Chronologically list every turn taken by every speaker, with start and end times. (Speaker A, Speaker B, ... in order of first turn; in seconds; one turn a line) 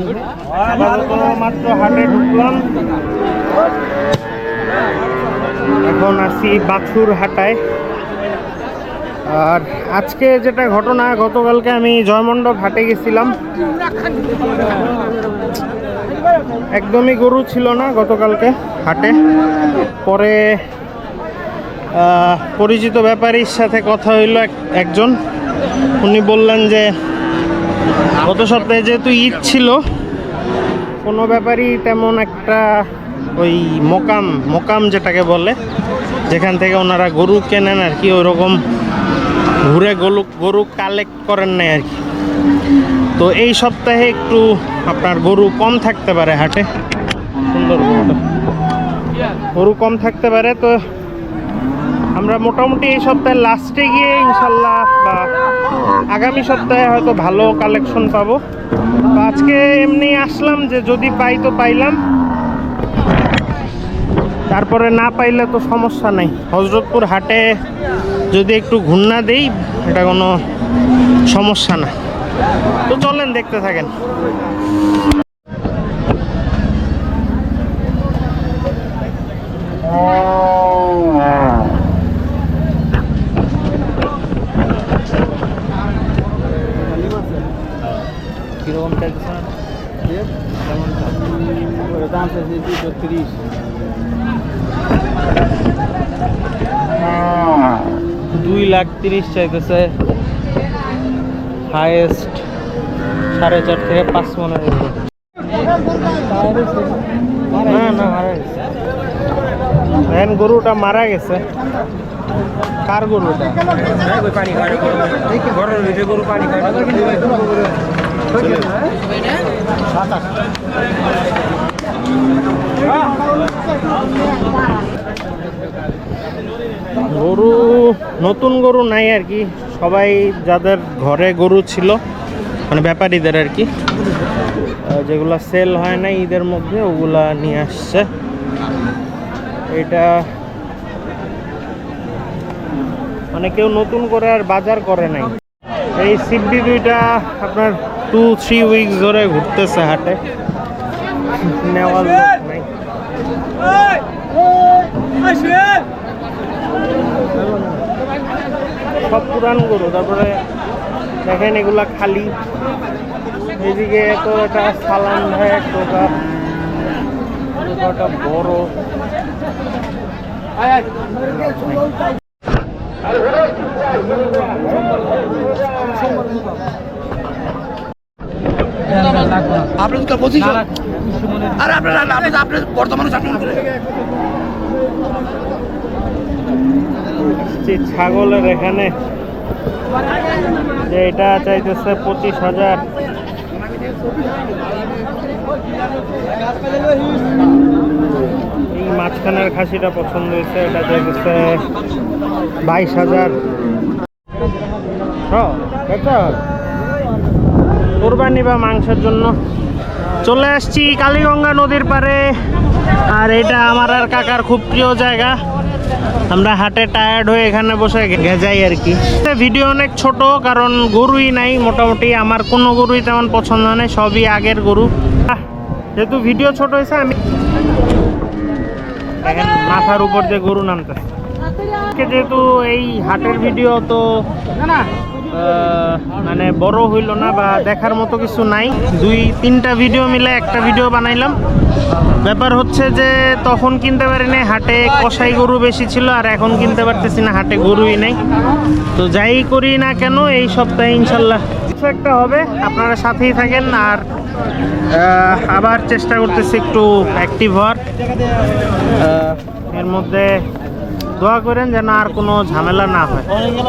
Speaker A: 0.7-2.7
Speaker A: 5.8-7.6
Speaker A: 9.3-13.3
Speaker A: 16.8-19.2
Speaker A: 20.0-20.6
Speaker A: 21.9-25.2
Speaker A: 26.0-26.9
Speaker A: 28.2-29.8
Speaker A: 31.0-32.8
Speaker A: 33.4-35.6
Speaker A: 36.3-38.6
Speaker A: 39.6-42.0
Speaker A: 43.2-46.7
Speaker A: 47.5-48.2
Speaker A: 49.5-50.8
Speaker A: 52.2-55.3
Speaker A: 56.1-58.4
Speaker A: 59.1-62.0
Speaker A: 64.5-67.5
Speaker A: 68.3-70.3
Speaker A: 71.3-71.9
Speaker A: 72.9-73.9
Speaker B: 86.9-87.5
Speaker A: 88.6-89.5
Speaker A: 90.6-91.1
Speaker B: 91.8-93.3
Speaker A: 98.3-99.9
Speaker A: 101.7-102.4
Speaker A: 103.3-105.0
Speaker B: 106.5-106.9
Speaker A: 107.6-108.6
Speaker A: 110.1-111.4
Speaker A: 112.9-113.6
Speaker B: 116.7-117.4
Speaker B: 118.4-118.8
Speaker A: 127.0-132.0
Speaker A: 132.7-133.7
Speaker A: 134.9-138.1
Speaker A: 139.7-140.2
Speaker A: 143.3-145.3
Speaker A: 146.0-150.2
Speaker A: 151.4-152.7
Speaker A: 159.1-160.4
Speaker A: 161.2-162.3
Speaker A: 163.6-166.1
Speaker A: 167.6-168.7
Speaker A: 171.3-171.9
Speaker B: 180.1-180.6
Speaker B: 181.9-182.6
Speaker A: 187.4-188.9
Speaker A: 190.8-192.8
Speaker A: 198.7-201.6
Speaker A: 202.7-203.3
Speaker A: 205.3-206.4
Speaker A: 208.0-209.4
Speaker A: 210.2-212.4
Speaker A: 213.1-215.4
Speaker A: 216.3-225.4
Speaker A: 226.0-227.2
Speaker A: 229.2-231.0
Speaker A: 231.9-234.1
Speaker A: 235.3-241.4
Speaker A: 242.2-248.2
Speaker A: 249.0-254.1
Speaker A: 254.9-257.8
Speaker A: 258.9-260.4
Speaker A: 261.2-263.3